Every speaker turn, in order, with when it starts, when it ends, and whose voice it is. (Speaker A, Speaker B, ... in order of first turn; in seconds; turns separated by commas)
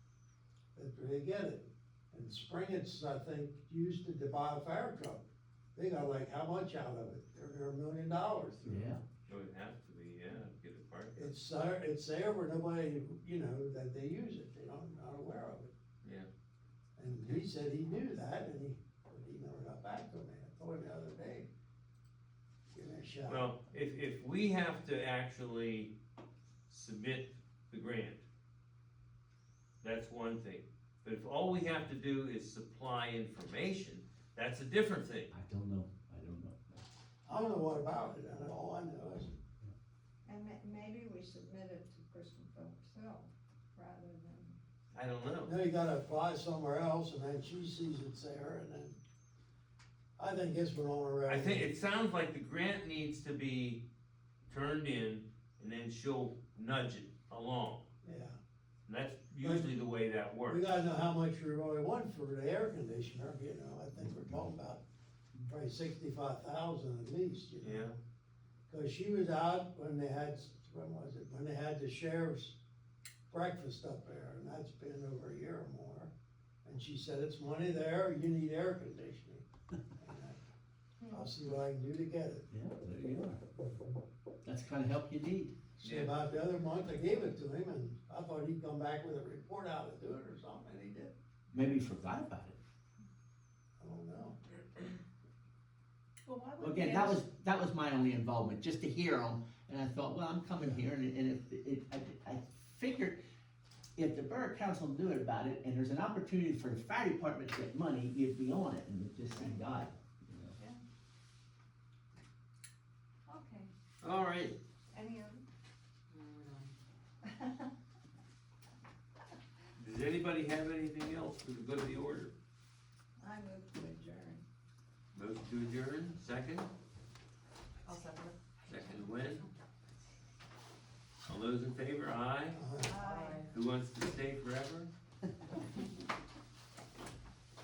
Speaker A: 0.7-9.0, Speaker B: 8.7-9.0, Speaker C: 9.3-11.3, Speaker A: 11.1-15.7, Speaker C: 16.0-16.3, Speaker A: 17.0-21.5, Speaker A: 22.7-23.5, Speaker C: 23.2-25.9, Speaker C: 26.7-28.2, Speaker C: 29.8-35.3, Speaker B: 35.3-36.8, Speaker A: 37.2-39.3, Speaker D: 40.2-44.6, Speaker C: 44.9-45.5, Speaker A: 45.4-49.0, Speaker A: 50.2-51.7, Speaker C: 51.3-53.8, Speaker C: 54.5-57.9, Speaker A: 58.0-58.4, Speaker C: 58.9-60.6, Speaker A: 59.4-59.8, Speaker A: 60.5-64.8, Speaker A: 65.5-67.9, Speaker C: 67.6-68.0, Speaker A: 68.7-72.6, Speaker A: 73.3-76.1, Speaker A: 76.6-79.4, Speaker A: 80.0-80.4, Speaker D: 81.0-81.3, Speaker A: 81.1-82.5, Speaker B: 82.5-83.4, Speaker B: 84.4-85.5, Speaker A: 85.8-91.1, Speaker C: 85.8-86.1, Speaker B: 91.5-92.6, Speaker A: 93.8-94.6, Speaker D: 96.2-97.2, Speaker B: 96.6-103.2, Speaker B: 104.0-110.5, Speaker D: 110.6-110.8, Speaker D: 113.2-113.7, Speaker C: 114.0-114.6, Speaker D: 114.9-115.4, Speaker E: 116.1-116.7, Speaker D: 117.3-117.6, Speaker C: 119.8-122.3, Speaker D: 123.2-124.4, Speaker C: 125.1-126.7, Speaker E: 127.8-129.3, Speaker C: 128.7-129.4, Speaker C: 131.2-132.6, Speaker A: 132.5-133.0, Speaker D: 132.8-133.4, Speaker E: 132.9-133.5, Speaker C: 133.5-134.9